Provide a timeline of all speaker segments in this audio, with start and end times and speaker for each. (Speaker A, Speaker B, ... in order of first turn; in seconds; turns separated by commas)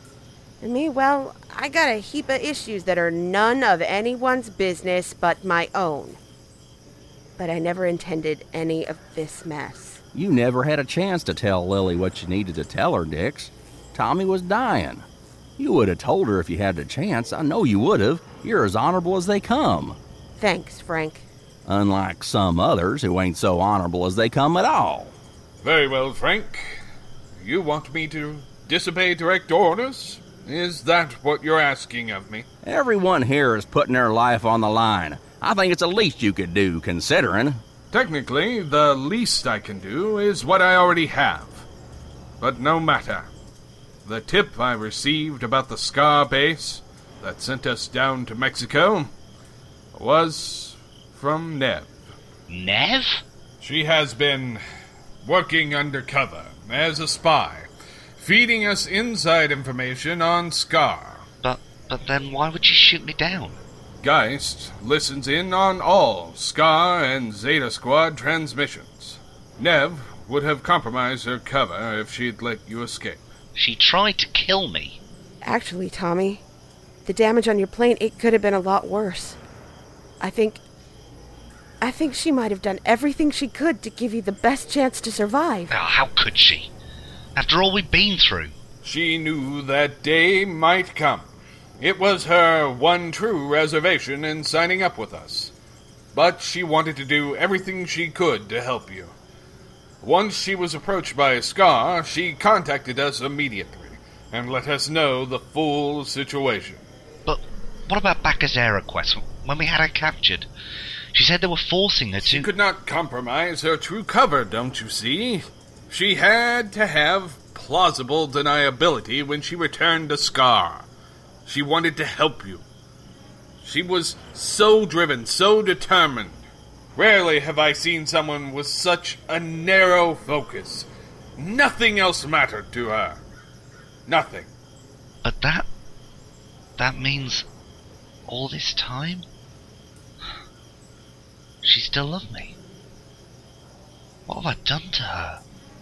Speaker A: 0.6-6.2, Speaker A: 7.4-10.0, Speaker B: 10.1-15.0, Speaker B: 15.6-20.0, Speaker A: 20.4-21.2, Speaker B: 21.7-25.2, Speaker C: 25.6-26.8, Speaker C: 27.3-32.5, Speaker B: 32.6-37.6, Speaker C: 37.9-41.6, Speaker C: 42.4-43.3, Speaker C: 44.0-49.1, Speaker C: 49.9-52.0, Speaker D: 52.5-53.2, Speaker C: 53.6-54.6, Speaker C: 55.2-61.3, Speaker D: 61.4-63.6, Speaker C: 64.0-73.2, Speaker D: 73.5-75.0, Speaker A: 75.4-76.4, Speaker A: 77.0-79.4, Speaker A: 80.2-80.6, Speaker A: 81.8-85.7, Speaker D: 85.7-86.7, Speaker D: 87.3-88.5, Speaker C: 88.8-95.5, Speaker C: 96.1-99.1, Speaker C: 100.0-106.8, Speaker D: 107.2-110.5, Speaker D: 111.1-112.5, Speaker C: 112.2-120.9, Speaker C: 121.5-122.6, Speaker C: 123.6-126.4, Speaker C: 127.0-133.2, Speaker C: 134.1-134.5, Speaker D: 135.2-135.7, Speaker D: 136.8-137.5, Speaker D: 138.3-139.2, Speaker D: 141.6-142.6, Speaker D: 144.3-145.4